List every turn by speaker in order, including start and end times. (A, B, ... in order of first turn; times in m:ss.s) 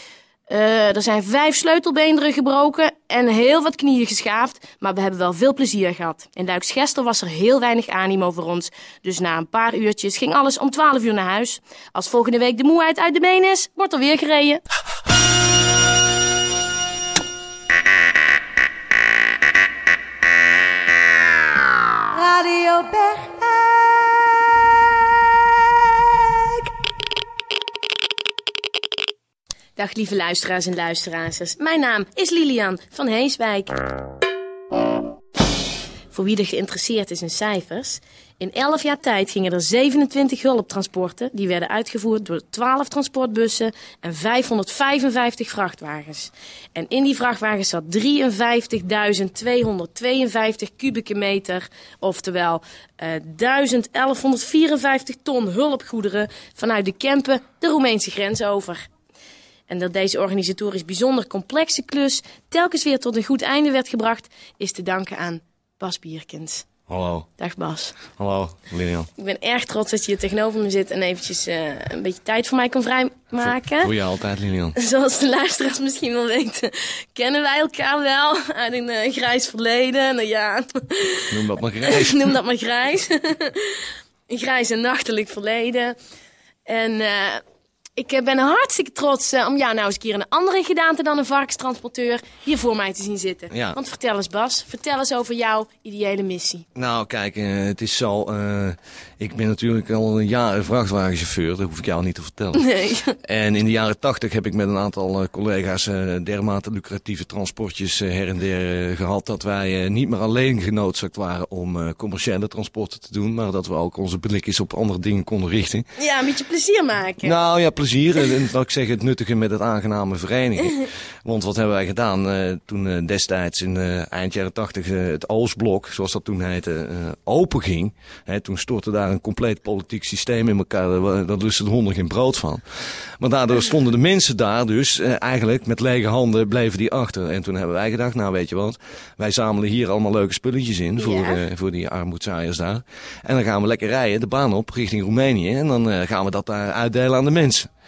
0:00.5-0:14.6 A
0:22.1-0:23.2 A
0:29.8-0:33.8 A
0:36.1-0:58.8 A
0:59.7-1:06.6 A
1:06.9-1:07.3 B
1:07.4-1:08.0 A
1:08.2-1:09.1 B
1:09.2-1:13.9 A
1:13.4-1:14.7 B
1:14.7-1:26.0 A
1:21.3-1:22.3 B
1:26.6-1:27.4 A
1:28.0-1:36.6 A
1:33.5-1:33.8 B
1:36.7-1:42.7 B
1:42.6-1:43.1 A
1:43.2-1:55.8 B
1:56.0-1:57.4 A
1:57.2-2:12.6 B
2:13.2-2:27.7 B
2:21.0-2:21.4 A